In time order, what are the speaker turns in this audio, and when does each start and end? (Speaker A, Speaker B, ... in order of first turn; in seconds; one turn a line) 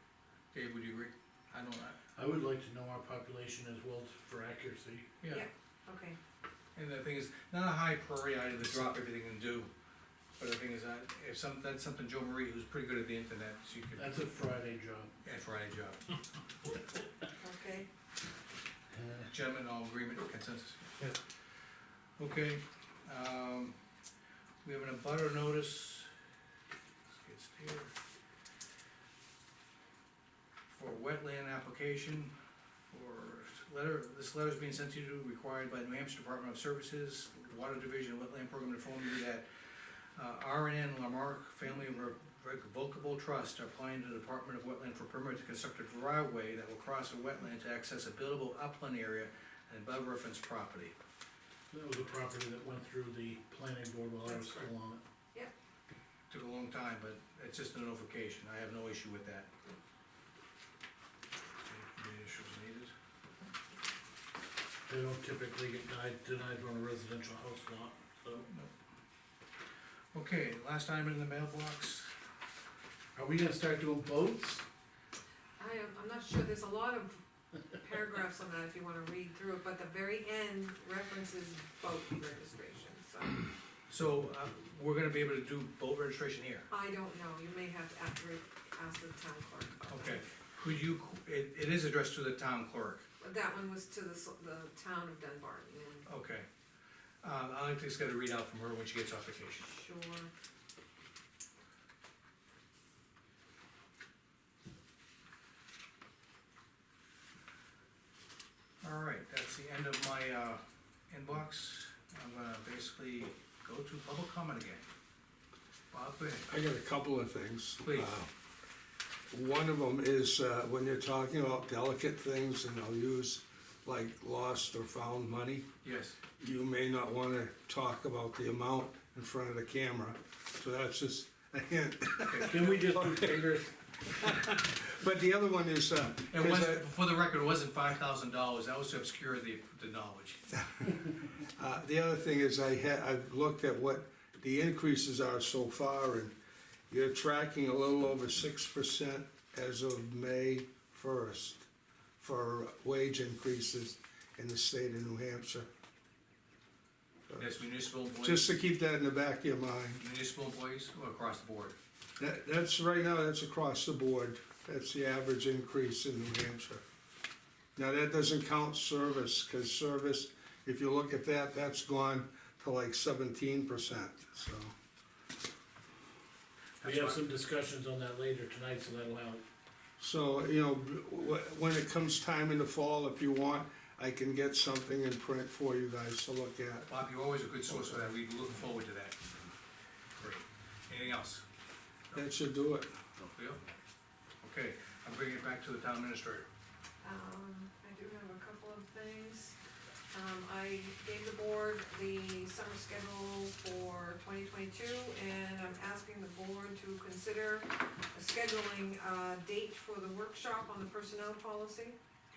Speaker A: 0.5-2.0
Speaker B: 2.1-5.1
Speaker A: 5.2-5.5
Speaker C: 5.3-6.2
Speaker A: 6.7-9.7
Speaker A: 10.4-14.1
Speaker B: 13.9-15.1
Speaker A: 15.2-16.0
Speaker C: 17.4-17.9
Speaker B: 18.9-19.3
Speaker A: 19.3-21.1
Speaker A: 22.2-23.8
Speaker A: 24.6-26.1
Speaker A: 27.1-27.9
Speaker A: 30.7-32.3
Speaker A: 32.9-50.9
Speaker B: 51.7-55.0
Speaker C: 54.2-54.7
Speaker A: 56.3-59.5
Speaker A: 61.6-62.9
Speaker B: 64.9-68.5
Speaker A: 70.1-72.1
Speaker B: 73.1-74.6
Speaker C: 75.6-83.4
Speaker A: 83.9-86.7
Speaker C: 86.7-90.2
Speaker A: 89.8-93.1
Speaker C: 93.2-96.1
Speaker A: 96.0-96.5
Speaker A: 97.2-99.7
Speaker C: 99.6-100.3
Speaker A: 108.8-114.8
Speaker A: 115.9-116.5
Speaker D: 116.5-118.3
Speaker A: 117.8-118.2
Speaker D: 119.3-125.7
Speaker A: 125.8-126.2
Speaker D: 126.4-133.5
Speaker A: 132.2-132.8
Speaker B: 132.5-133.7
Speaker D: 134.1-136.8
Speaker A: 136.3-140.4
Speaker D: 141.4-146.3
Speaker D: 146.9-151.7
Speaker D: 152.2-155.7
Speaker D: 157.3-157.5
Speaker A: 157.4-158.5
Speaker D: 158.2-160.0
Speaker A: 160.0-161.8
Speaker D: 162.2-166.8
Speaker D: 167.8-174.7
Speaker A: 176.8-177.2
Speaker B: 176.8-179.4
Speaker D: 180.0-186.9
Speaker A: 186.9-189.1
Speaker D: 187.7-188.1
Speaker A: 190.2-191.4
Speaker D: 192.1-192.9
Speaker A: 193.3-193.6
Speaker A: 194.4-196.5
Speaker C: 197.0-199.6
Speaker C: 200.1-212.0